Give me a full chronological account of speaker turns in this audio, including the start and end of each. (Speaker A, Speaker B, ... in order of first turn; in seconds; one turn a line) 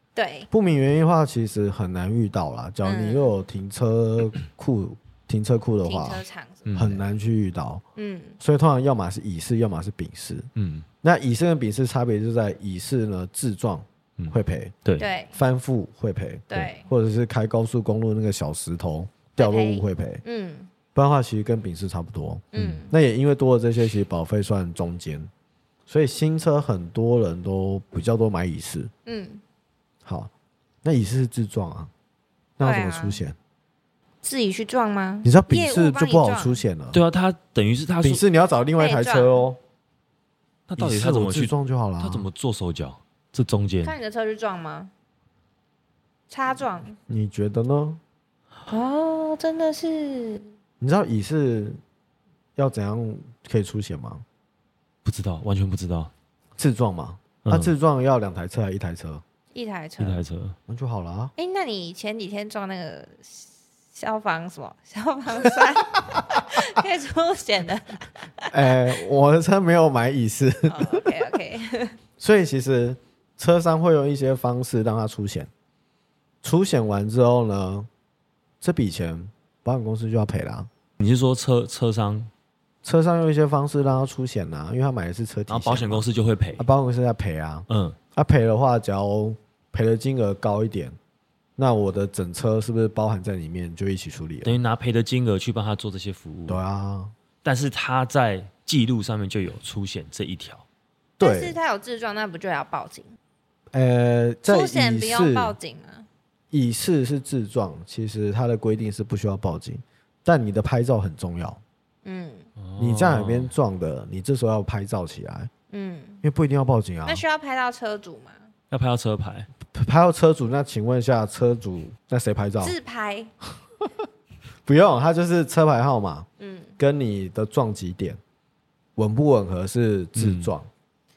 Speaker A: 0.1-0.5
Speaker B: 0.5-6.2
Speaker A: 2.8-3.3
Speaker A: 5.8-6.8
Speaker C: 6.7-7.0
Speaker B: 6.8-7.8
Speaker A: 8.0-8.4
Speaker B: 8.4-10.5
Speaker C: 10.6-10.9
Speaker B: 11.0-14.8
Speaker C: 14.2-15.1
Speaker A: 15.0-15.4
Speaker B: 15.3-20.2
Speaker A: 16.5-16.9
Speaker A: 19.4-20.7
Speaker B: 20.9-25.3
Speaker C: 22.5-22.9
Speaker A: 22.5-22.9
Speaker B: 25.9-28.9
Speaker A: 29.1-29.4
Speaker B: 30.0-30.3
Speaker B: 30.8-31.9
Speaker B: 32.6-33.4
Speaker A: 32.6-33.2
Speaker A: 34.2-36.6
Speaker B: 35.2-37.0
Speaker C: 36.9-38.2
Speaker B: 38.0-39.6
Speaker A: 38.8-39.5
Speaker C: 40.7-43.9
Speaker B: 40.8-42.2
Speaker A: 43.8-44.9
Speaker A: 46.3-47.0
Speaker B: 47.1-48.0
Speaker A: 48.7-50.5
Speaker B: 50.8-51.8
Speaker B: 52.5-54.2
Speaker C: 55.0-56.1
Speaker B: 56.6-59.2
Speaker C: 57.4-57.7
Speaker A: 59.5-60.2
Speaker C: 60.0-60.6
Speaker B: 60.7-61.3
Speaker A: 61.4-68.7
Speaker B: 68.5-71.4
Speaker A: 70.7-72.0
Speaker B: 72.2-75.5
Speaker B: 76.4-77.9
Speaker B: 78.6-80.7
Speaker C: 81.0-82.3
Speaker B: 82.8-86.0
Speaker C: 85.5-86.7
Speaker B: 86.6-91.0
Speaker C: 87.7-88.0
Speaker B: 91.6-94.5
Speaker C: 94.4-96.6
Speaker B: 96.5-97.1
Speaker C: 97.4-100.6
Speaker A: 101.2-103.1
Speaker B: 101.2-101.6
Speaker B: 103.7-105.5
Speaker A: 104.4-106.1
Speaker B: 106.5-111.6
Speaker A: 112.0-112.5
Speaker C: 112.6-113.5
Speaker B: 112.8-115.5
Speaker A: 115.7-116.2
Speaker B: 116.2-117.2
Speaker A: 117.0-118.4
Speaker C: 118.7-119.5
Speaker B: 119.7-122.7
Speaker A: 122.6-123.3
Speaker B: 124.7-126.3
Speaker A: 126.4-126.8
Speaker B: 126.8-128.2
Speaker B: 128.9-130.7
Speaker C: 130.2-130.5